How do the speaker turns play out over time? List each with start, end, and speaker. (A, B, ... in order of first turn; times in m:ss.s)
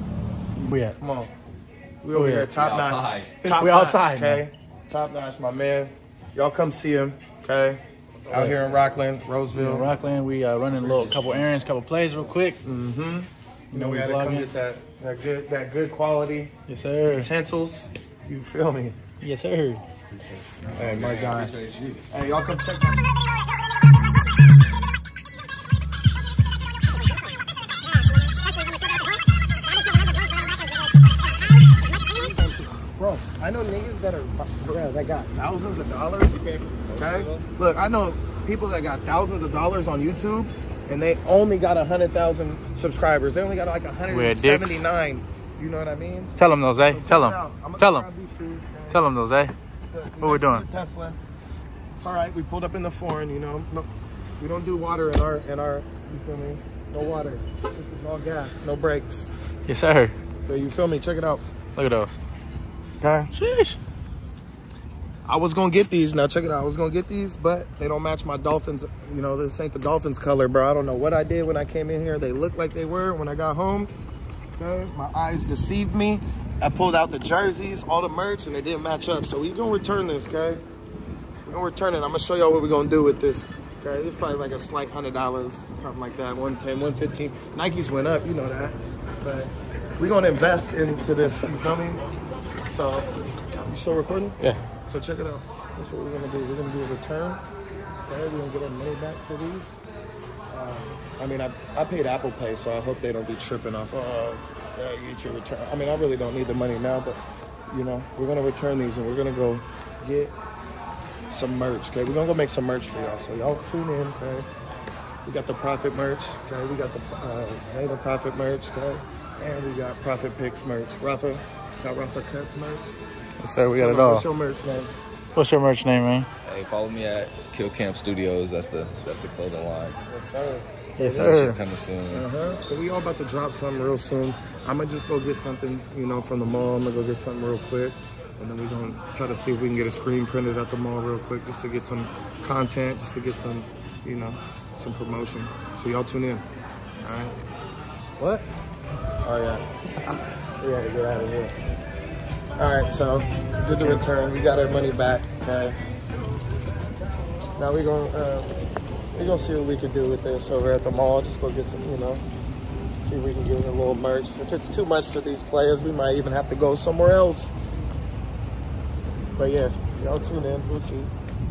0:00.6-0:01.0 A
0:01.0-0:01.3 B
0:02.0-0:09.9 B
0:02.1-0:02.5 A
0:02.4-0:03.4 C
0:03.4-0:04.4 A
0:08.3-0:08.7 A
0:09.5-0:12.6 A
0:10.7-0:11.4 C
0:12.6-0:16.5 B
0:13.7-0:14.5 A
0:16.7-0:17.3 A
0:17.0-0:19.0 B
0:19.2-0:19.8 A
0:20.2-0:22.1 C
0:20.8-0:21.5 B
0:22.1-0:23.1 B
0:32.1-0:49.1 B
0:36.7-0:37.5 C
0:44.1-0:44.8 A
0:46.4-0:48.1 A
0:48.9-0:49.5 A
0:49.9-0:51.2 B
0:50.2-0:50.7 A
0:52.0-0:59.3 B
0:59.7-1:00.1 A
1:00.4-1:01.4 B
1:01.7-1:02.2 A
1:03.0-1:03.3 B
1:03.3-1:03.8 A
1:05.2-1:13.9 B
1:14.6-1:20.6 B
1:21.4-1:32.0 B
1:32.7-1:33.1 B
1:33.6-1:37.4 B
1:34.4-1:34.6 A
1:38.0-1:39.7 B
1:40.5-1:50.3 B
1:51.3-1:54.5 B
1:55.2-2:02.9 B
2:03.4-2:04.3 A
2:03.7-2:04.9 B
2:05.4-2:06.3 A
2:06.4-2:10.0 C
2:10.0-2:11.0 B
2:11.0-2:11.6 A
2:11.0-2:12.3 C
2:12.1-2:26.4 B
2:27.0-2:27.4 B
2:28.2-2:28.4 A
2:29.2-2:31.5 B
2:32.6-2:35.8 B
2:33.6-2:34.0 A
2:37.6-2:38.5 B
2:39.1-2:42.2 B
2:43.0-2:47.5 B
2:49.4-2:51.1 B